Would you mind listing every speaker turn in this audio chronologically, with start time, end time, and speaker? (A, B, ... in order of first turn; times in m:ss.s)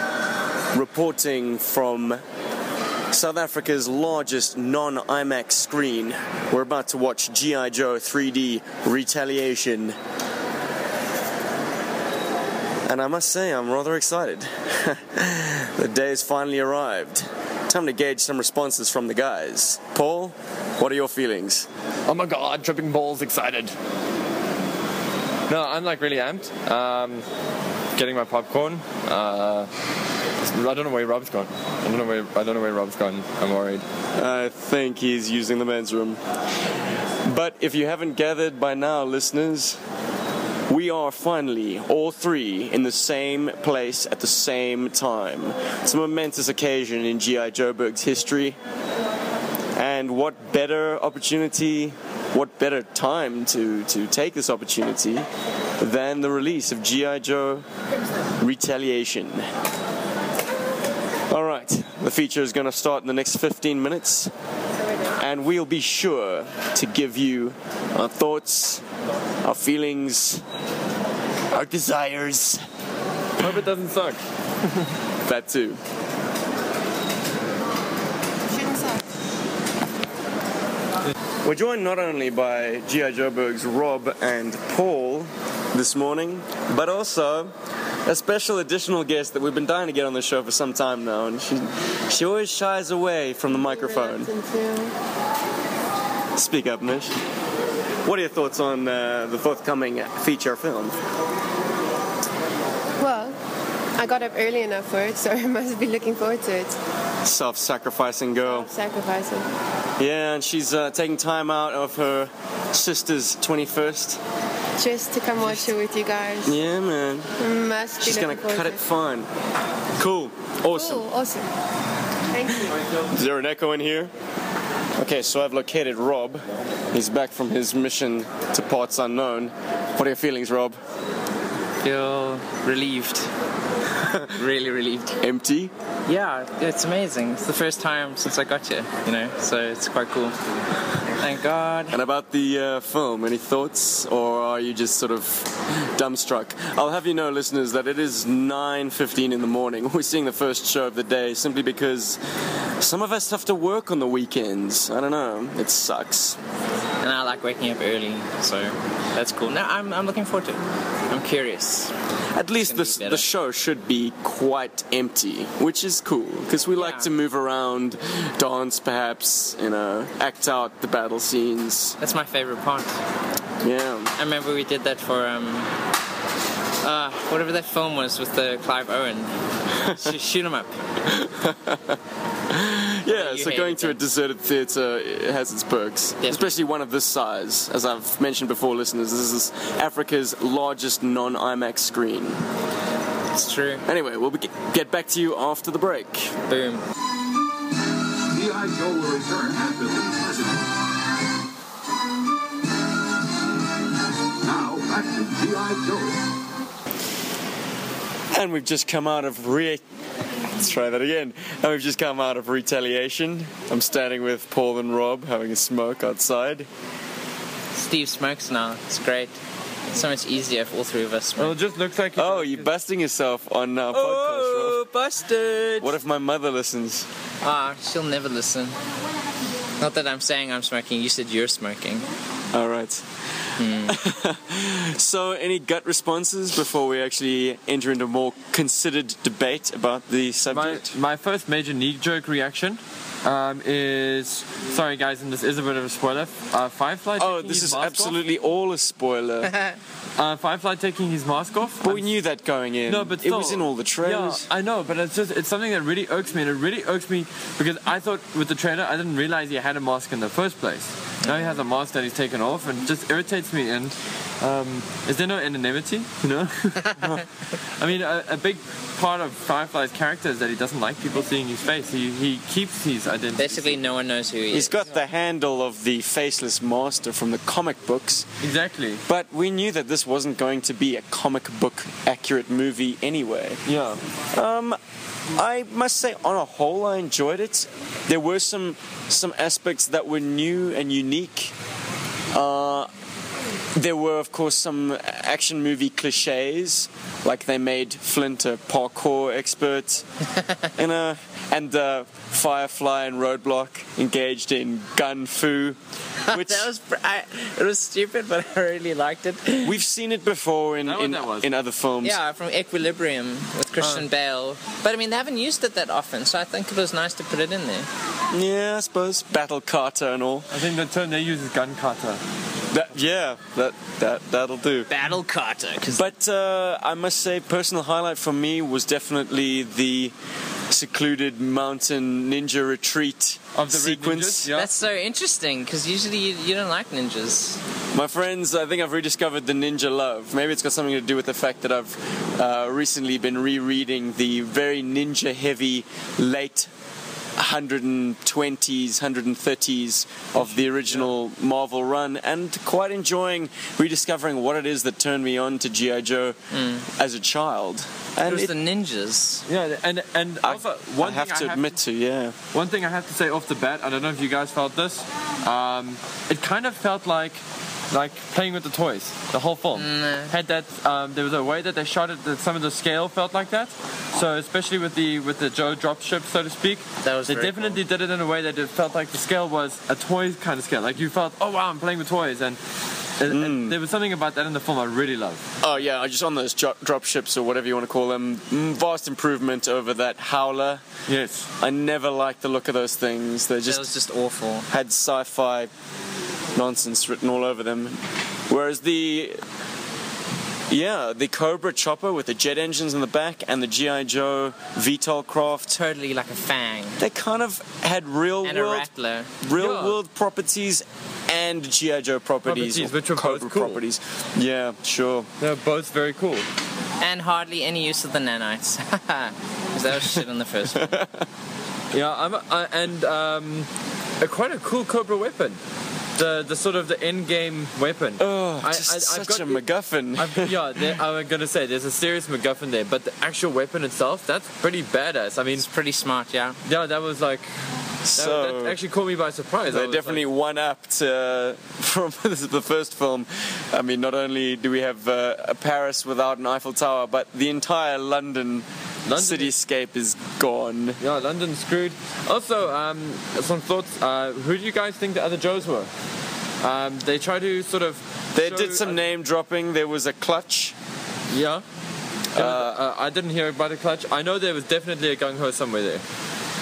0:00.7-0:02.2 A
0:03.1-0:10.0 A
0:12.9-0:21.7 A
0:22.1-0:23.8 B
0:25.5-0:27.3 B
0:28.0-0:29.7 B
0:30.4-0:33.8 B
0:34.2-0:36.2 A
0:37.2-0:39.8 A
0:40.7-0:48.6 A
0:49.8-0:55.3 A
0:55.8-0:57.6 A
0:58.4-0:59.5 A
1:01.3-1:04.3 A
1:05.2-1:08.8 A
1:09.4-1:10.4 A
1:11.5-1:12.6 A
1:13.4-1:14.9 B
1:15.2-1:15.8 A
1:18.6-1:19.0 C
1:21.4-1:27.5 A
1:28.0-1:34.3 A
1:33.6-1:35.0 C
1:36.4-1:37.2 A
1:38.0-1:41.0 A
1:43.0-1:43.4 C
1:44.0-1:46.8 C
1:47.2-1:48.7 A
1:48.4-1:49.5 C
1:50.0-1:54.2 A
1:54.8-1:56.5 C
1:56.4-1:57.4 A
1:57.4-1:58.8 C
1:58.0-1:59.3 A
2:00.0-2:01.1 A
2:00.7-2:01.5 C
2:02.3-2:02.7 C
2:02.9-2:04.1 A
2:05.0-2:10.8 A
2:11.8-2:13.3 D
2:14.0-2:14.3 A
2:14.4-2:15.2 D
2:15.2-2:15.7 A
2:16.1-2:20.4 D
2:21.0-2:22.0 D
2:21.9-2:32.2 A
2:32.8-2:36.4 A
2:37.0-2:41.9 D
2:42.3-2:52.0 A
2:42.6-2:43.3 D
2:46.8-2:47.1 D
2:52.0-2:53.0 D
2:53.6-2:54.1 A
2:54.2-2:55.7 D
2:56.8-2:59.4 D
2:59.8-3:00.2 A
2:59.9-3:00.8 D
3:01.1-3:02.0 A
3:02.5-3:12.4 A
3:03.1-3:04.0 D
3:06.2-3:06.5 D
3:13.3-3:13.8 D
3:13.9-3:16.3 A
3:16.5-3:16.8 D
3:18.3-3:20.6 E
3:24.4-3:26.2 E
3:28.3-3:29.8 A
3:30.6-3:36.7 A
3:37.7-3:39.4 D
3:39.9-3:41.6 D
3:41.4-3:42.7 B
3:42.2-3:44.8 A
3:43.9-3:46.0 D
3:45.8-3:47.1 A
3:47.4-3:48.8 D
3:49.8-3:52.0 D
3:52.5-3:53.0 A
3:53.6-3:54.0 D
3:53.8-4:01.0 A
4:00.5-4:08.2 B
4:07.2-4:09.6 A
4:10.2-4:12.1 B
4:11.8-4:14.5 A
4:12.9-4:33.9 B
4:21.2-4:21.6 D
4:33.4-4:34.8 D
4:34.5-4:38.3 A
4:38.4-4:39.0 B
4:39.1-4:43.6 A
4:43.7-4:44.0 B
4:44.3-4:44.8 A
4:45.3-4:51.5 A
4:52.3-4:52.9 A
4:53.8-5:00.0 A
5:00.8-5:05.8 A
5:06.3-5:09.8 D
5:06.3-5:06.7 A
5:09.6-5:12.2 A
5:10.8-5:11.5 B
5:12.0-5:17.9 D
5:13.8-5:14.1 B
5:18.3-5:20.5 A
5:20.5-5:22.2 B
5:22.7-5:24.9 A
5:24.9-5:26.1 D
5:25.9-5:30.1 A
5:30.7-5:34.5 A
5:33.6-5:34.7 B
5:34.5-5:37.6 D
5:37.9-5:46.7 A
5:47.4-5:56.4 A
5:56.5-5:56.8 D
5:57.0-5:58.5 A
5:58.3-5:59.4 D
5:59.5-6:01.8 B
6:00.4-6:02.4 A
6:02.5-6:22.6 B
6:09.7-6:10.3 D
6:17.0-6:17.8 D
6:23.2-6:25.4 B
6:23.3-6:23.8 A
6:25.6-6:30.8 A
6:31.1-6:31.5 B
6:31.6-6:33.9 A
6:33.7-6:34.7 D
6:34.7-6:35.7 A
6:36.6-6:39.4 A
6:40.7-6:45.8 A
6:45.7-6:47.0 D
6:47.0-6:48.9 A
6:48.4-6:49.3 D
6:49.4-6:55.3 A
6:49.6-6:50.0 B
6:52.4-6:53.8 B
6:55.4-6:56.5 B
6:57.0-7:00.9 D
7:00.7-7:01.2 A
7:01.9-7:03.7 B
7:04.2-7:05.6 B
7:06.2-7:15.6 B
7:08.2-7:11.0 A
7:15.5-7:16.6 D
7:16.6-7:20.2 B
7:18.0-7:18.8 A
7:19.7-7:31.0 A
7:29.1-7:29.5 B
7:31.0-7:35.9 B
7:36.6-7:39.0 B
7:38.4-7:40.8 A
7:41.3-7:41.6 B
7:42.4-7:42.8 A
7:42.4-7:46.0 B